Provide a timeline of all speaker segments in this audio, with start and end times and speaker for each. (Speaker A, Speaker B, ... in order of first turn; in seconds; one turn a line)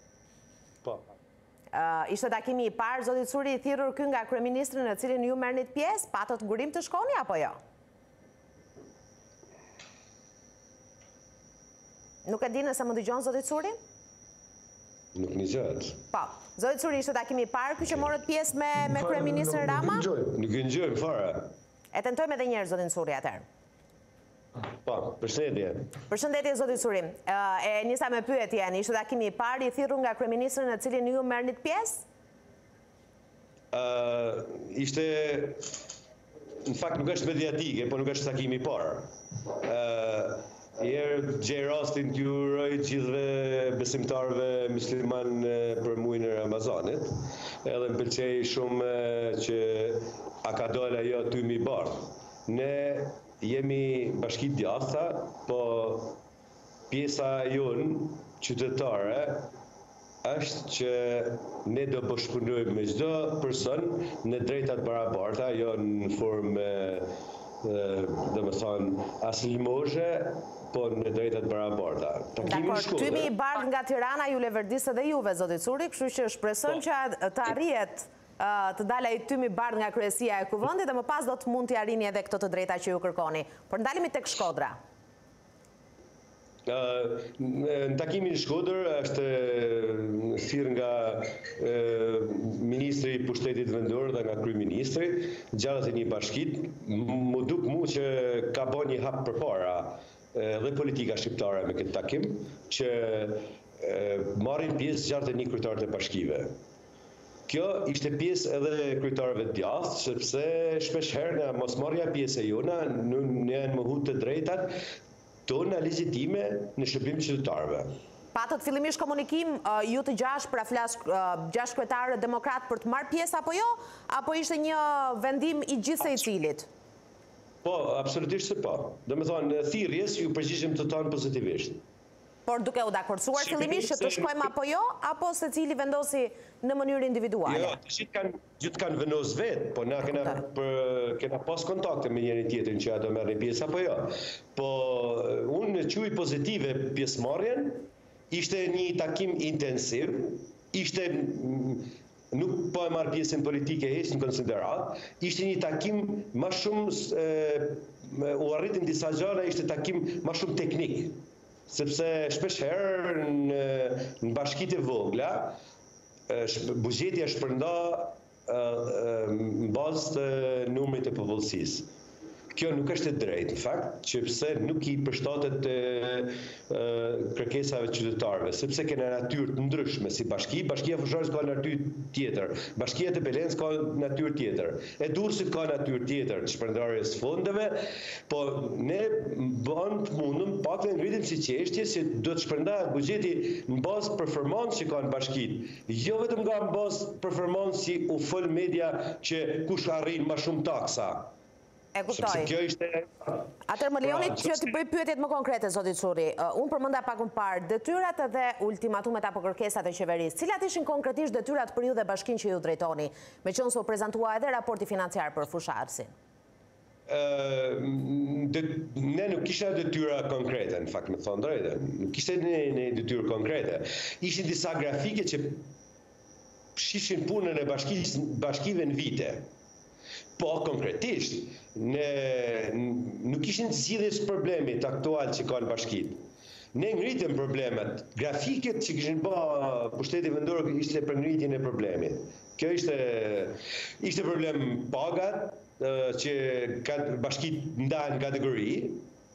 Speaker A: 1.7-7.6
Speaker A: 12.2-13.8
Speaker B: 15.1-16.0
Speaker A: 16.1-20.1
Speaker B: 20.2-21.5
Speaker A: 21.9-23.4
Speaker B: 24.8-25.9
Speaker A: 26.1-32.0
Speaker B: 33.7-35.8
Speaker B: 36.6-56.2
Speaker B: 56.9-59.5
Speaker B: 60.2-73.3
Speaker A: 72.4-84.8
Speaker B: 86.7-106.5
Speaker B: 107.5-114.8
Speaker B: 115.5-117.9
Speaker A: 118.3-126.7
Speaker B: 127.6-131.8
Speaker A: 132.5-137.8
Speaker B: 133.4-134.5
Speaker B: 137.5-165.6
Speaker B: 166.3-171.9
Speaker B: 172.5-201.3
Speaker A: 201.9-202.5
Speaker B: 202.1-203.4
Speaker A: 203.7-216.1
Speaker B: 204.0-204.6
Speaker B: 217.1-225.7
Speaker B: 226.8-229.5
Speaker B: 230.4-236.2
Speaker B: 236.7-249.1